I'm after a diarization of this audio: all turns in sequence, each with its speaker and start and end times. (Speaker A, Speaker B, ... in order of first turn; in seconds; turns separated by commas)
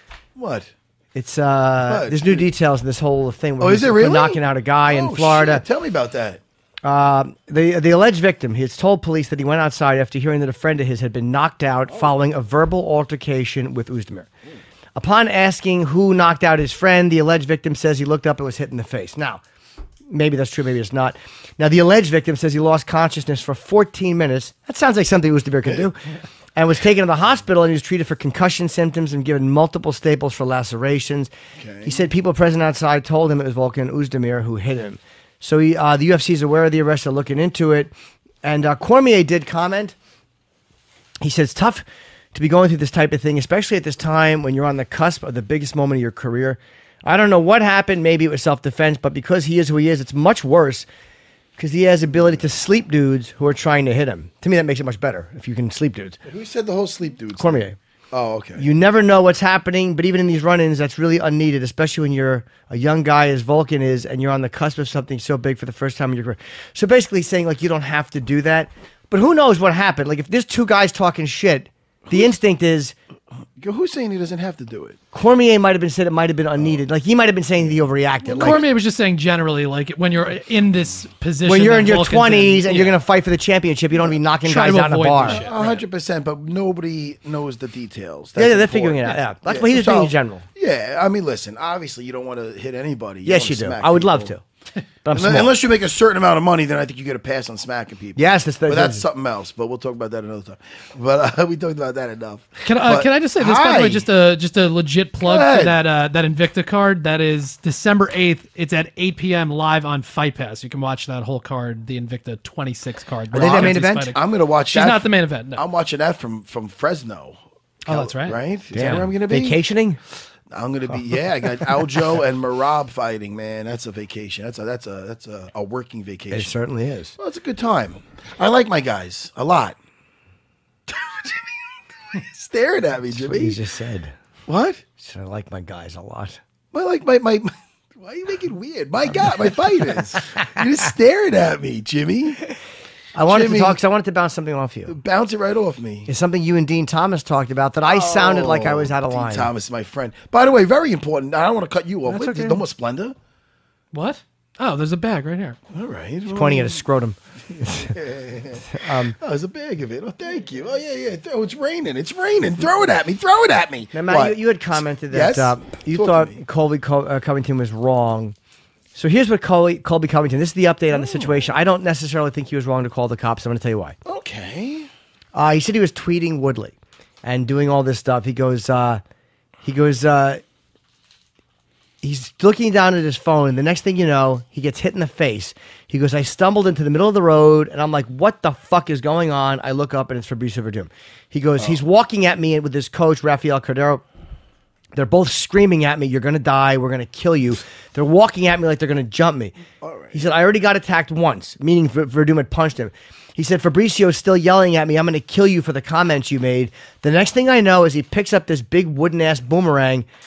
Speaker A: 0.3-0.7, Speaker B: 1.1-5.6, Speaker A: 1.8-2.5, Speaker A: 3.6-6.4, Speaker B: 6.8-14.3, Speaker B: 14.9-19.4, Speaker B: 20.1-26.0, Speaker B: 26.6-31.3, Speaker A: 31.6-32.0, Speaker B: 31.8-37.9, Speaker B: 38.4-39.9, Speaker B: 41.2-50.9, Speaker B: 51.6-56.2, Speaker A: 56.2-58.6, Speaker B: 57.4-57.8, Speaker B: 58.5-72.9, Speaker A: 73.6-75.0, Speaker B: 75.1-78.6, Speaker A: 78.3-78.7, Speaker C: 78.3-83.0, Speaker B: 81.4-85.4, Speaker C: 84.4-85.8, Speaker A: 85.2-94.3, Speaker B: 88.3-90.4, Speaker B: 93.2-94.4, Speaker B: 95.0-95.5, Speaker A: 95.1-104.1, Speaker B: 98.2-99.0, Speaker C: 102.6-115.6, Speaker A: 105.2-105.8, Speaker B: 113.3-114.1, Speaker A: 113.3-119.6, Speaker C: 117.9-119.1, Speaker B: 118.7-120.0, Speaker A: 120.5-126.5, Speaker B: 126.3-127.2, Speaker A: 127.2-129.8, Speaker A: 130.9-131.5, Speaker A: 132.1-133.6, Speaker B: 133.1-134.1, Speaker A: 134.5-134.8, Speaker B: 135.0-136.4, Speaker A: 136.7-142.4, Speaker B: 143.1-144.9, Speaker A: 143.3-143.8, Speaker A: 144.9-146.1, Speaker B: 146.1-149.5, Speaker A: 147.8-153.1, Speaker B: 152.1-152.6, Speaker C: 153.9-155.6, Speaker A: 155.7-156.8, Speaker B: 156.3-157.9, Speaker A: 157.5-164.4, Speaker B: 158.7-159.2, Speaker B: 163.9-168.3, Speaker A: 165.1-166.4, Speaker B: 168.9-173.9, Speaker A: 170.9-171.5, Speaker A: 174.0-174.9, Speaker B: 175.3-179.0, Speaker B: 179.6-180.4, Speaker B: 182.0-194.0, Speaker B: 194.9-199.5, Speaker A: 199.8-200.2, Speaker B: 200.1-210.1